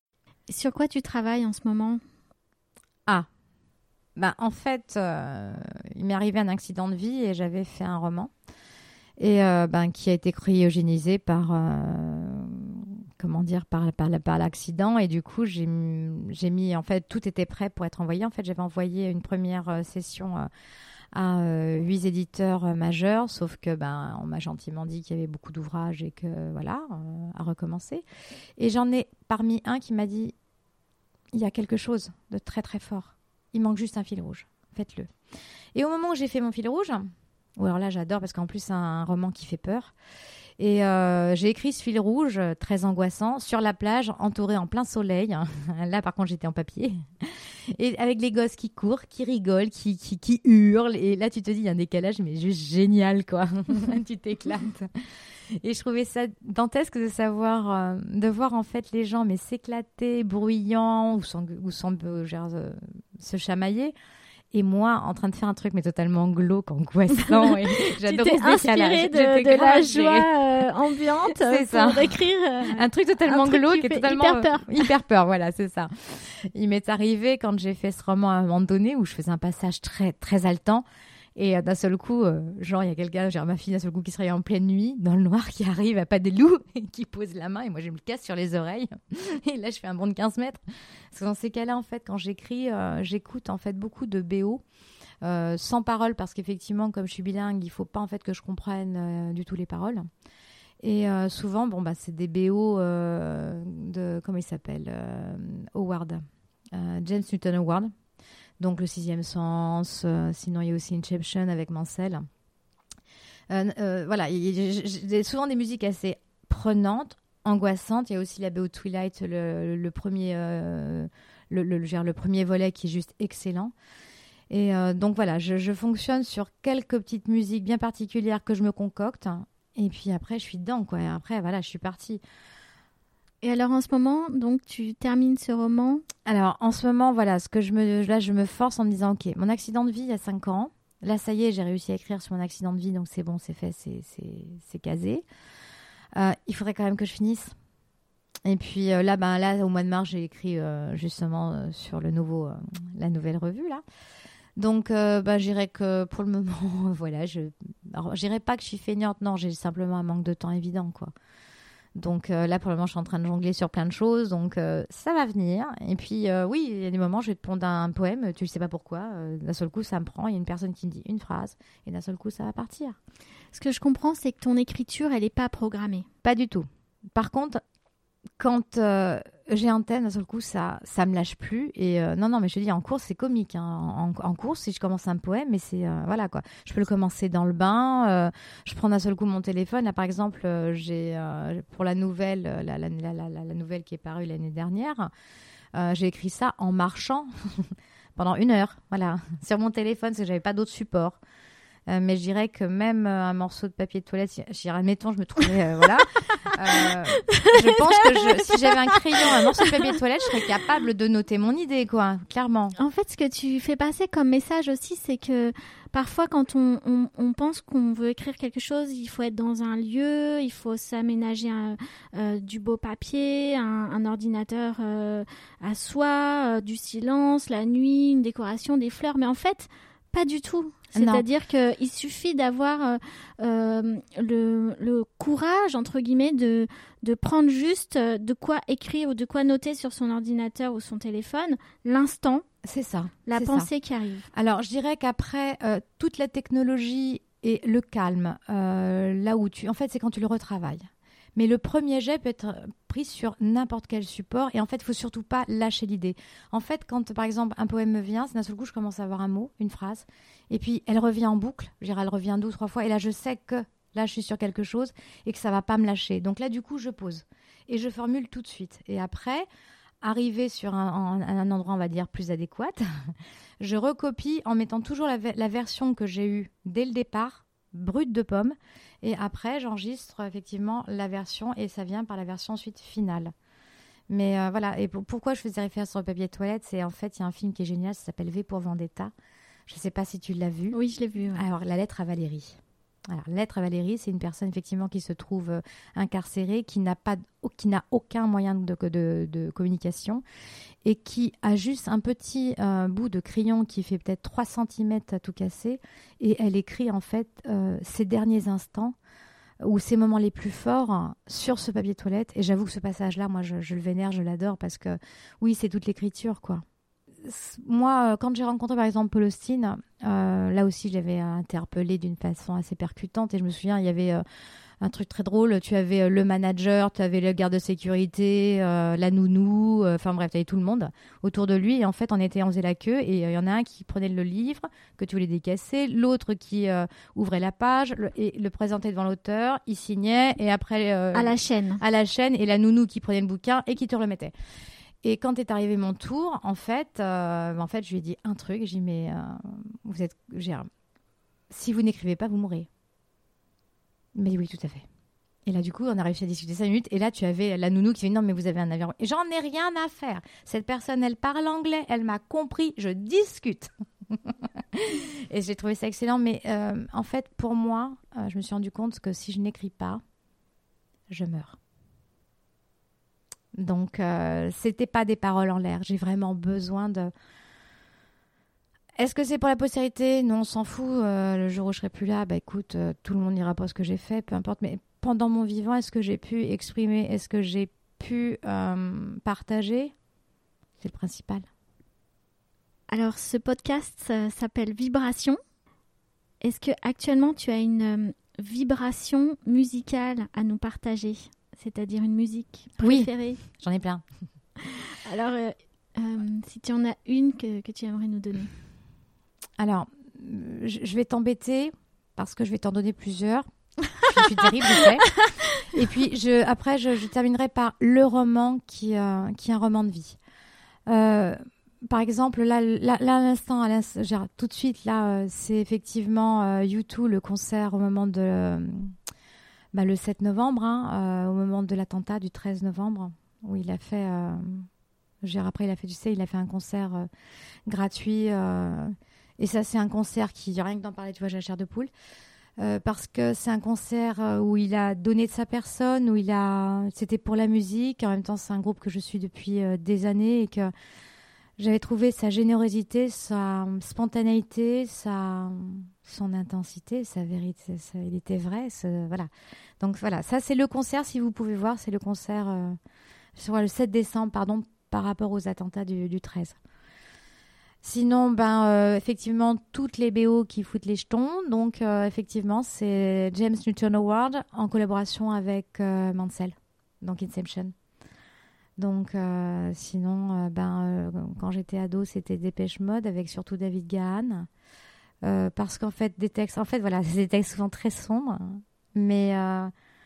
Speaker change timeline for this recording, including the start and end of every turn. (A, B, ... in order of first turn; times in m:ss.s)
0:00.5-0:02.0 A
0:04.2-0:08.3 B
0:09.2-0:20.5 B
0:21.1-0:28.0 B
0:28.6-0:30.3 B
0:31.3-0:35.1 B
0:35.7-0:39.9 B
0:40.6-0:54.9 B
0:55.6-1:03.9 B
1:04.5-1:10.3 B
1:07.2-1:14.9 A
1:11.3-1:20.8 B
1:21.4-1:30.6 B
1:31.1-1:34.6 B
1:35.2-1:40.0 B
1:40.8-1:47.9 B
1:48.6-1:52.2 B
1:53.5-2:03.7 B
2:04.5-2:12.2 B
2:13.4-2:16.0 A
2:16.2-2:25.2 B
2:26.2-2:27.5 B
2:28.4-2:33.8 B
2:34.6-2:41.1 B
2:42.0-2:53.0 B
2:53.5-2:56.1 A
2:56.2-2:57.6 B
2:58.4-3:15.1 B
3:15.7-3:21.2 B
3:21.9-3:32.8 B
3:26.8-3:29.3 A
3:32.8-4:02.4 A
3:50.9-3:51.2 B
4:02.6-4:03.7 B
4:03.2-4:04.3 A
4:04.3-4:29.5 B
4:30.0-4:32.8 B
4:33.6-4:43.3 B
4:44.1-4:49.1 B
4:49.7-4:50.8 B
4:50.7-4:51.4 A
4:51.3-5:00.2 B
5:00.8-5:09.0 B
5:09.6-5:16.6 B
5:17.2-5:24.2 B
5:24.8-5:44.3 B
5:41.1-5:41.8 A
5:45.0-5:50.7 B
5:51.5-5:52.7 B
5:54.1-5:54.8 B
5:55.4-6:10.0 B
6:11.1-6:11.6 B
6:13.5-6:17.1 B
6:19.0-6:29.9 B
6:30.8-6:31.5 B
6:32.9-6:35.4 A
6:36.4-6:43.4 A
6:42.8-6:44.0 B
6:45.0-6:48.5 A
6:49.6-7:00.2 B
7:00.9-7:08.9 B
7:09.7-7:14.7 B
7:15.2-7:17.1 B
7:17.7-7:21.9 B
7:22.6-7:30.7 B
7:31.6-7:39.3 B
7:39.8-7:42.8 B
7:43.4-7:46.6 B
7:47.8-7:57.7 B
7:58.8-8:04.5 B
8:05.2-8:09.7 B